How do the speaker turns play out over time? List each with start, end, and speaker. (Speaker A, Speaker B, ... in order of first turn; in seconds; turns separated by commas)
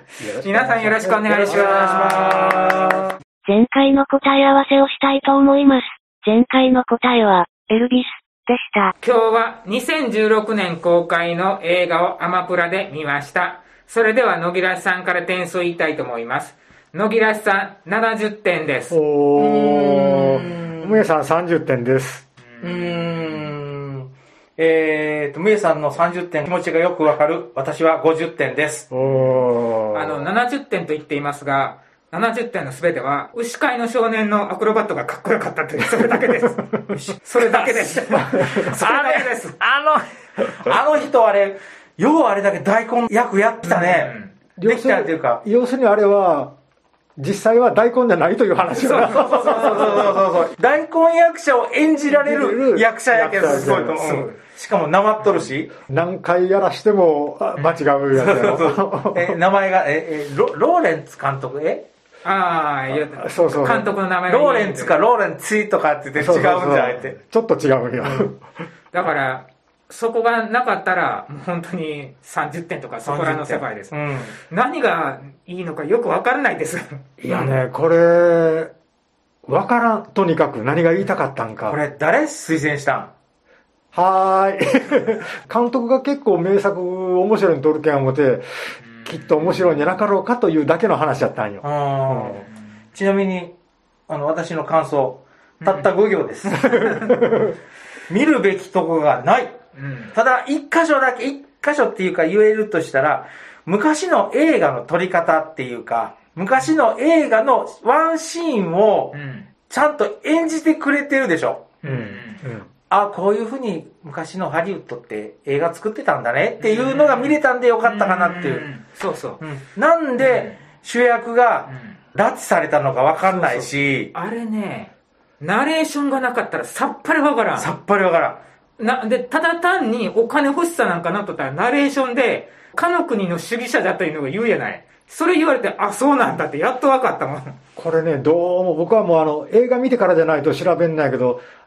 Speaker A: 0.2-1.8, Speaker B: 0.4-2.9, Speaker C: 1.3-3.1, Speaker D: 3.5-8.9, Speaker B: 9.0-19.0, Speaker A: 18.9-22.3, Speaker C: 19.4-21.1, Speaker B: 22.5-23.5, Speaker C: 22.6-28.9, Speaker A: 28.9-30.3, Speaker B: 29.9-39.6, Speaker C: 36.9-45.4, Speaker A: 38.1-38.7, Speaker B: 43.7-44.3, Speaker A: 44.6-46.5, Speaker A: 47.2-50.1, Speaker B: 48.8-50.0, Speaker C: 49.0-55.7, Speaker A: 52.1-54.3, Speaker A: 55.9-59.4, Speaker C: 58.1-61.9, Speaker B: 62.2-65.0, Speaker A: 62.9-63.9, Speaker C: 64.3-67.1, Speaker A: 66.2-68.4, Speaker C: 68.0-68.3, Speaker B: 68.9-74.0, Speaker C: 73.0-74.4, Speaker B: 74.5-77.2, Speaker A: 77.2-78.7, Speaker C: 77.3-77.6, Speaker A: 79.5-81.8, Speaker C: 81.7-83.1, Speaker A: 83.9-92.5, Speaker B: 88.8-90.0, Speaker C: 91.6-93.5, Speaker C: 94.1-96.7, Speaker B: 95.6-95.9, Speaker B: 96.5-97.2, Speaker A: 96.6-97.5, Speaker C: 98.1-99.6, Speaker B: 99.8-100.1, Speaker C: 100.1-109.2, Speaker B: 109.1-109.5, Speaker C: 109.7-111.8, Speaker B: 111.8-112.4, Speaker A: 111.8-112.7, Speaker C: 112.9-118.7, Speaker B: 116.6-119.4, Speaker C: 119.4-124.1, Speaker B: 120.2-120.5, Speaker B: 123.3-127.7, Speaker C: 127.6-128.4, Speaker B: 128.8-137.6, Speaker A: 137.8-141.4